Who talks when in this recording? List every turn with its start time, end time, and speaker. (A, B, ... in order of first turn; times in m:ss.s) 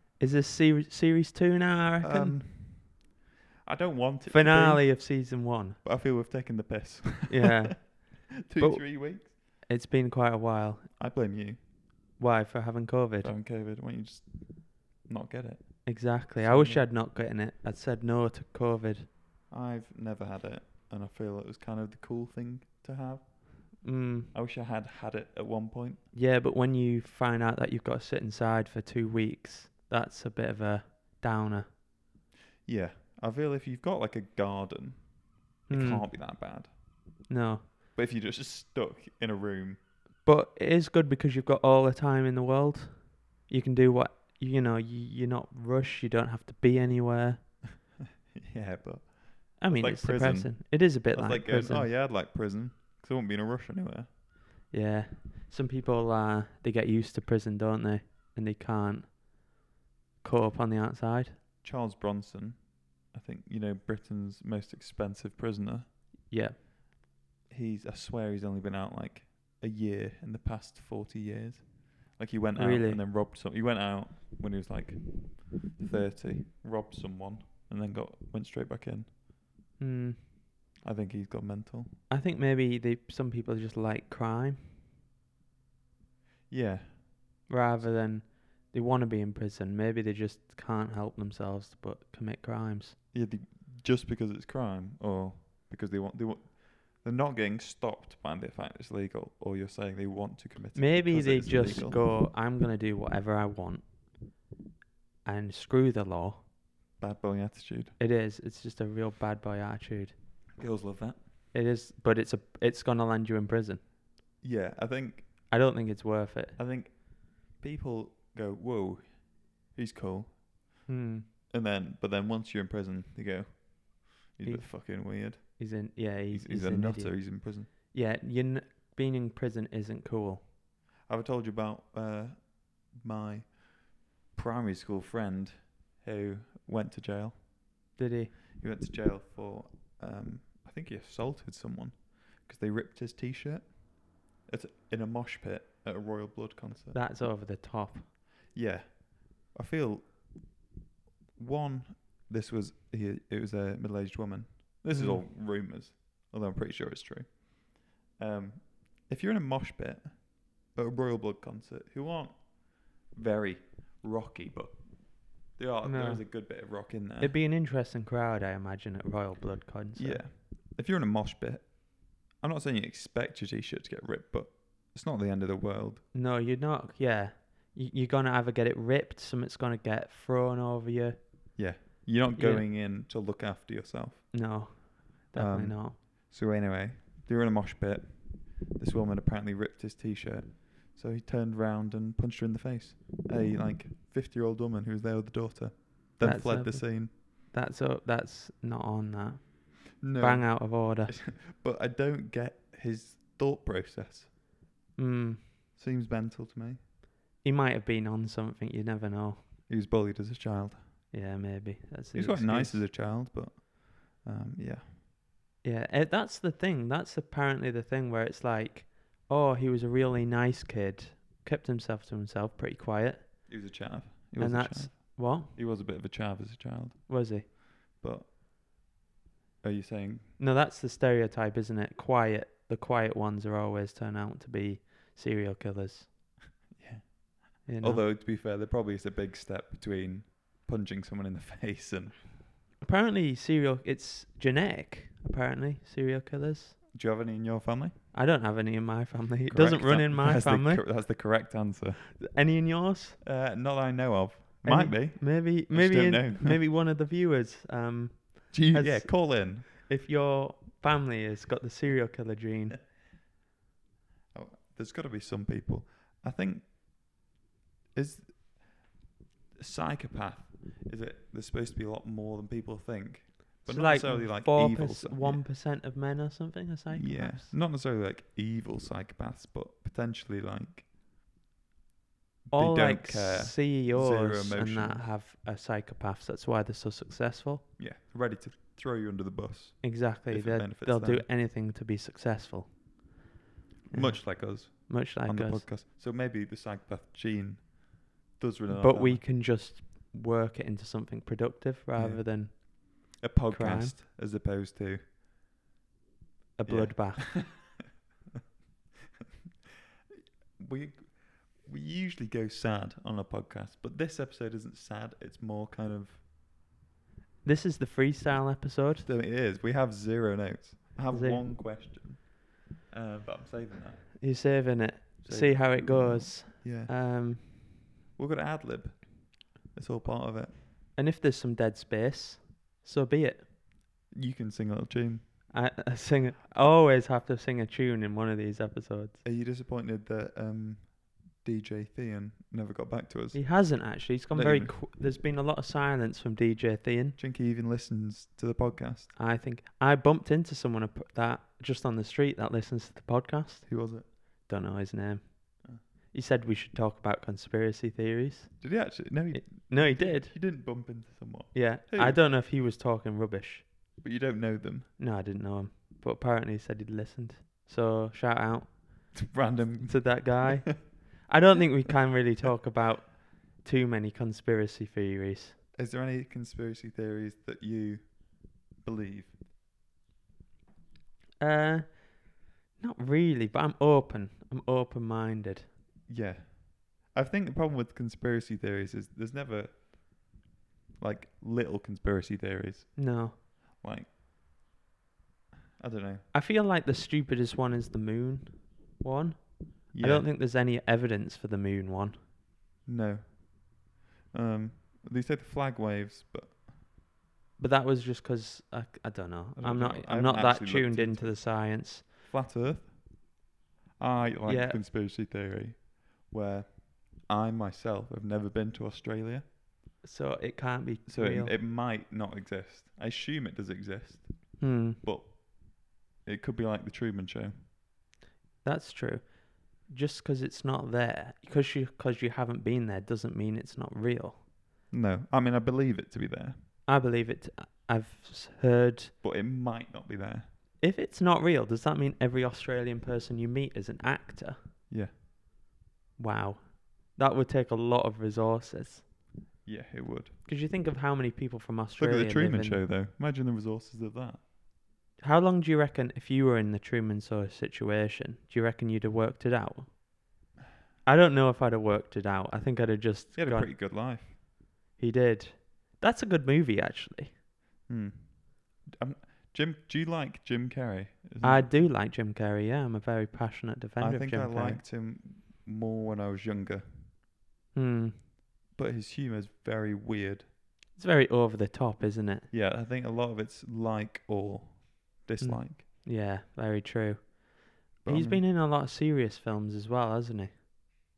0:00.2-0:02.4 A
0:02.0-0:03.0 B
0:03.7-0:05.0 B
0:04.3-0:05.8 A
0:05.8-0:09.3 B
0:07.3-0:10.9 A
0:11.0-0:11.6 B
0:12.2-0:13.3 A
0:13.2-0:16.9 B
0:15.8-0:19.1 A
0:19.5-0:26.0 B
0:23.8-0:24.3 A
0:26.1-0:31.7 A
0:32.6-0:36.8 B
0:35.7-0:36.0 A
0:37.3-0:37.6 A
0:38.0-0:39.8 B
0:40.2-0:47.5 A
0:48.3-0:54.1 B
0:49.6-0:51.9 A
0:54.7-0:59.2 A
1:00.2-1:01.4 A
1:01.6-1:05.9 B
1:06.3-1:06.6 A
1:07.5-1:19.1 B
1:12.6-1:13.0 A
1:19.8-1:20.2 A
1:20.8-1:22.0 B
1:22.1-1:24.8 A
1:26.5-1:27.9 B
1:27.5-1:33.0 A
1:33.1-1:42.0 B
1:40.8-1:43.8 A
1:45.2-1:46.4 A
1:47.0-1:48.0 B
1:48.0-1:50.1 A
1:50.6-1:51.2 B
1:51.5-1:53.8 A
1:54.4-1:55.4 B
1:55.5-1:56.6 A
1:56.6-2:00.6 B
2:00.9-2:01.3 A
2:01.5-2:07.7 B
2:04.4-2:10.4 A
2:11.1-2:17.5 B
2:18.0-2:18.3 A
2:18.5-2:27.0 B
2:26.9-2:28.1 A
2:28.5-2:30.5 B
2:31.4-2:47.4 B
2:34.9-2:35.2 A
2:45.9-2:50.3 A
2:50.0-2:56.0 B
2:56.1-3:01.7 A
3:01.6-3:04.5 B
3:02.4-3:02.6 A
3:04.3-3:06.0 A
3:05.4-3:17.1 B
3:16.2-3:21.2 A
3:20.0-3:24.3 B
3:25.0-3:25.5 A
3:25.8-3:26.8 B
3:27.4-3:29.4 A
3:29.7-3:31.0 B
3:31.1-3:32.8 A
3:32.1-3:34.9 B
3:35.6-3:43.6 A
3:43.5-3:48.3 B
3:44.4-3:45.5 A
3:47.1-3:47.5 A
3:49.6-3:50.3 B
3:50.4-3:56.1 A
3:56.7-4:02.3 B
3:57.7-3:58.0 A
4:02.8-4:06.8 A
4:06.9-4:08.0 B
4:08.1-4:10.8 A
4:09.5-4:12.2 B
4:12.2-4:13.2 A
4:13.2-4:16.6 B
4:14.6-4:22.8 A
4:18.5-4:19.7 B
4:24.3-4:26.7 B
4:28.0-4:28.8 B
4:29.6-4:35.5 B
4:33.6-4:37.6 A
4:36.9-4:40.9 B
4:42.5-4:45.1 B
4:42.5-4:47.7 A
4:47.8-4:51.3 B
4:49.8-4:52.8 A
4:53.9-4:55.6 A
4:53.9-4:59.2 B
4:58.7-5:04.0 A
5:01.9-5:02.7 B
5:03.2-5:05.0 B
5:06.6-5:07.4 A
5:06.6-5:07.6 B
5:10.6-5:16.2 B
5:17.4-5:19.1 A
5:19.0-5:24.2 B
5:21.1-5:21.5 A
5:24.2-5:27.7 A
5:25.2-5:27.6 B
5:28.2-5:30.6 B
5:31.0-5:33.5 A
5:34.1-5:35.3 B
5:35.5-5:39.2 A
5:39.2-5:43.5 B
5:43.3-5:47.2 A
5:44.3-5:44.8 B
5:47.2-5:49.1 B
5:49.2-6:00.4 A
5:53.7-5:54.1 B
5:58.6-6:02.2 B
6:01.5-6:03.7 A
6:04.0-6:04.9 B
6:05.0-6:15.6 A
6:09.2-6:10.8 B
6:15.8-6:19.3 B
6:21.4-6:25.7 A
6:26.1-6:30.3 B
6:31.0-6:34.1 B
6:33.0-6:33.4 A
6:35.8-6:36.3 B
6:36.3-6:42.2 A
6:39.9-6:40.3 B
6:42.9-6:46.6 B
6:47.6-6:52.0 A
6:49.6-6:53.2 B
6:54.0-6:59.5 B
6:54.5-6:54.8 A
7:00.0-7:01.5 A
7:01.1-7:07.6 B
7:04.6-7:05.0 A
7:08.6-7:14.4 A
7:14.9-7:16.6 B
7:16.9-7:19.2 A
7:19.2-7:20.5 B
7:20.8-7:24.7 A
7:24.9-7:25.1 B
7:26.2-7:29.1 A
7:29.6-7:30.4 B
7:30.5-7:32.8 A
7:32.0-7:34.4 B
7:35.2-7:40.0 A
7:41.0-7:43.7 A
7:43.4-7:44.4 B
7:45.0-7:47.4 A
7:47.9-7:51.7 B
7:51.4-7:54.8 A
7:54.0-7:57.1 B
7:57.7-7:58.2 A
7:58.7-8:00.4 B
8:01.0-8:02.5 A
8:02.5-8:05.8 B
8:05.4-8:10.5 A
8:08.0-8:08.4 B